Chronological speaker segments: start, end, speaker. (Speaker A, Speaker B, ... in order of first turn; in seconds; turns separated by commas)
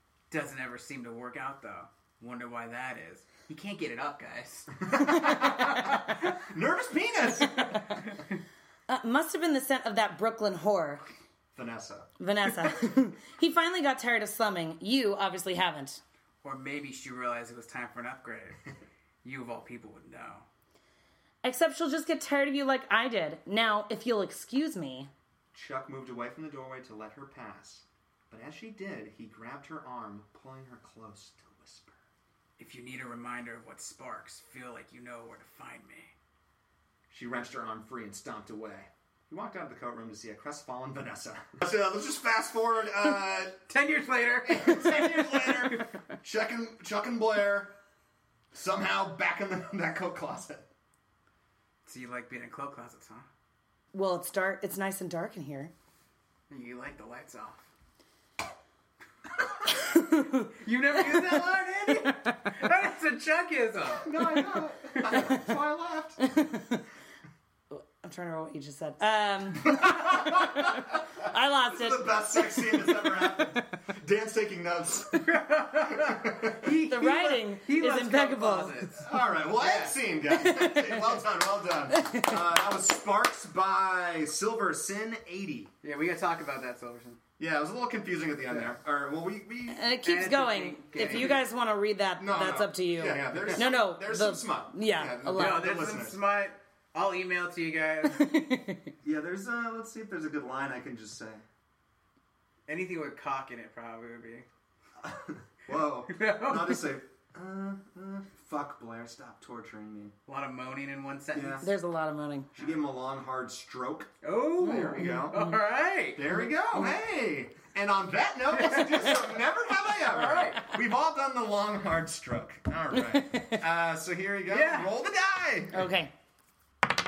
Speaker A: 0.3-6.4, Speaker B: 4.8-7.8, Speaker A: 7.3-8.4, Speaker C: 8.9-11.0, Speaker B: 11.5-12.1, Speaker C: 12.2-16.0, Speaker A: 16.4-18.6, Speaker A: 19.2-20.4, Speaker C: 21.4-25.1, Speaker B: 25.5-32.0, Speaker A: 32.6-36.1, Speaker B: 37.1-43.6, Speaker A: 43.7-45.9, Speaker B: 44.4-47.7, Speaker B: 48.5-50.6, Speaker A: 51.9-53.2, Speaker C: 53.9-55.7, Speaker A: 56.5-57.6, Speaker C: 59.9-60.5, Speaker A: 60.5-64.1, Speaker B: 64.0-66.3, Speaker C: 65.1-65.4, Speaker C: 66.2-66.8, Speaker C: 67.7-73.3, Speaker B: 69.6-75.3, Speaker A: 75.2-79.0, Speaker B: 75.8-76.7, Speaker C: 76.8-78.8, Speaker B: 79.0-85.7, Speaker A: 79.6-79.9, Speaker C: 80.3-81.1, Speaker C: 81.9-82.4, Speaker A: 85.8-87.2, Speaker B: 87.4-89.8, Speaker C: 89.7-95.7, Speaker A: 90.0-91.4, Speaker B: 91.0-91.3, Speaker B: 92.2-96.2, Speaker A: 95.2-98.4, Speaker C: 98.0-98.9, Speaker B: 99.0-101.4, Speaker A: 102.7-104.5, Speaker B: 105.0-110.1, Speaker A: 106.1-106.8, Speaker A: 110.3-111.7, Speaker B: 111.3-111.7, Speaker C: 111.6-112.5, Speaker B: 112.5-115.4, Speaker A: 114.2-116.2, Speaker C: 114.7-115.6, Speaker B: 116.1-125.9, Speaker A: 118.6-119.3, Speaker A: 120.0-120.7, Speaker C: 122.9-123.6, Speaker A: 124.5-124.9, Speaker C: 125.7-126.1